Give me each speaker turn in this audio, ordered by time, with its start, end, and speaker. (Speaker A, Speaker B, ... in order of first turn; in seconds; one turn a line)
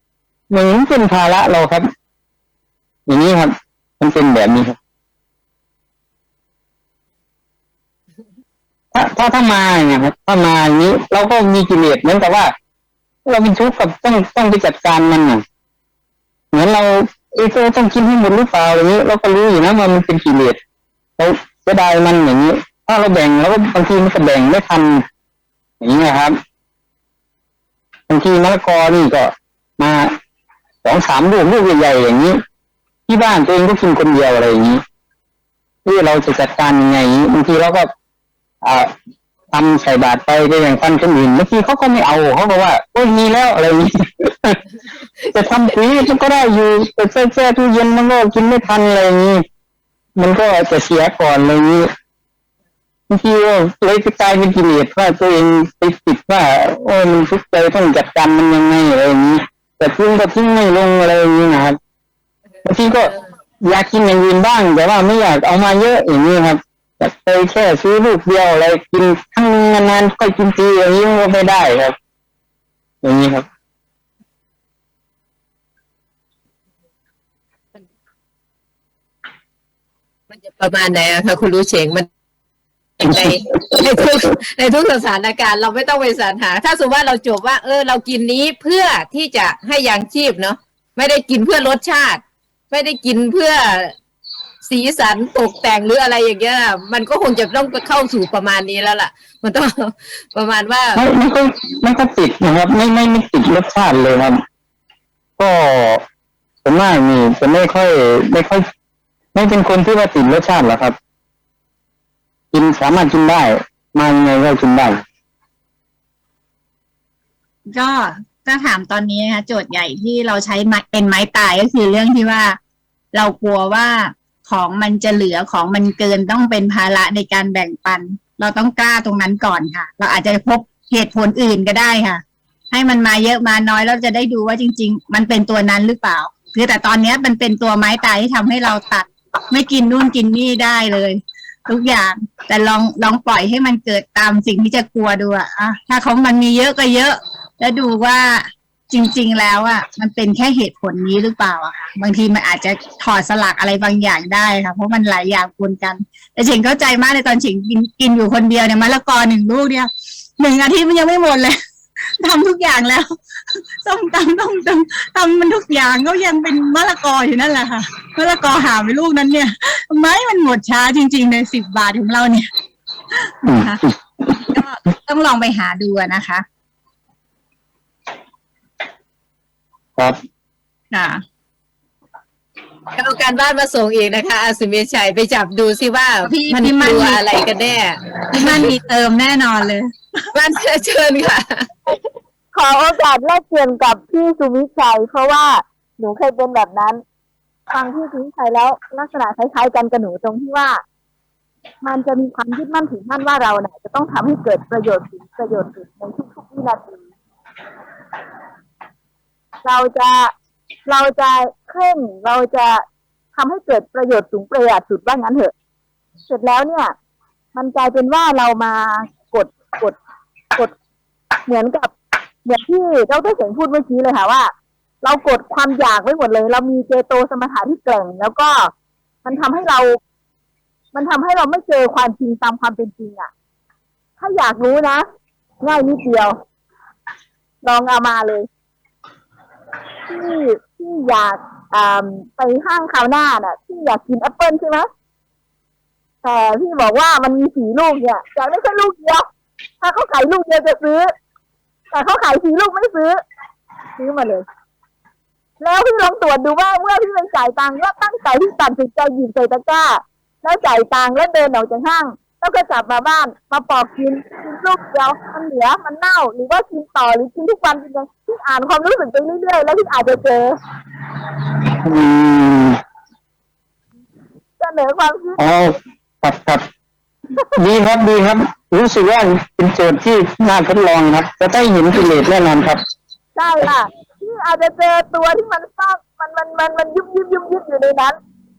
Speaker A: 0.5-1.9
Speaker A: 3.1-4.8
Speaker A: 8.9-12.5
Speaker A: 13.3-15.4
Speaker A: 16.5-20.6
Speaker A: 21.2-25.1
Speaker A: 25.8-26.4
Speaker A: 28.1-30.2
Speaker A: 30.8-32.4
Speaker A: 33.1-34.8
Speaker A: 35.9-37.9
Speaker A: 38.6-39.0
Speaker A: 39.5-44.6
Speaker A: 45.3-49.5
Speaker A: 50.2-51.9
Speaker A: 53.1-61.8
Speaker A: 62.6-72.0
Speaker A: 73.0-73.5
Speaker B: 80.3-82.1
Speaker B: 83.0-94.0
Speaker B: 94.6-101.0
Speaker A: 101.0-104.4
Speaker A: 105.4-106.0
Speaker A: 106.7-108.7
Speaker A: 109.3-111.0
Speaker A: 112.5-115.0
Speaker C: 117.7-122.6
Speaker C: 123.1-172.5
Speaker C: 173.2-173.8
Speaker A: 173.5-173.7
Speaker C: 174.4-176.4
Speaker C: 180.9-181.2
Speaker B: 182.9-188.7
Speaker C: 186.2-187.2
Speaker C: 188.3-189.9
Speaker B: 190.3-192.0
Speaker D: 192.5-197.0
Speaker D: 197.7-200.8
Speaker D: 201.8-207.0
Speaker D: 209.6-210.3
Speaker D: 210.9-215.5
Speaker D: 216.3-216.9
Speaker D: 217.6-220.0
Speaker D: 221.5-221.9
Speaker D: 222.4-224.5
Speaker D: 225.0-228.7
Speaker D: 229.2-230.0
Speaker D: 230.9-233.3
Speaker D: 234.2-235.1
Speaker D: 235.6-236.4
Speaker D: 237.6-238.5
Speaker D: 240.1-244.9
Speaker D: 246.2-249.3
Speaker D: 249.8-251.1
Speaker D: 251.9-253.2
Speaker D: 254.0-254.4
Speaker D: 255.6-270.6
Speaker A: 271.8-272.8
Speaker D: 274.6-275.4
Speaker A: 275.4-276.7
Speaker A: 277.6-282.8
Speaker D: 283.4-288.2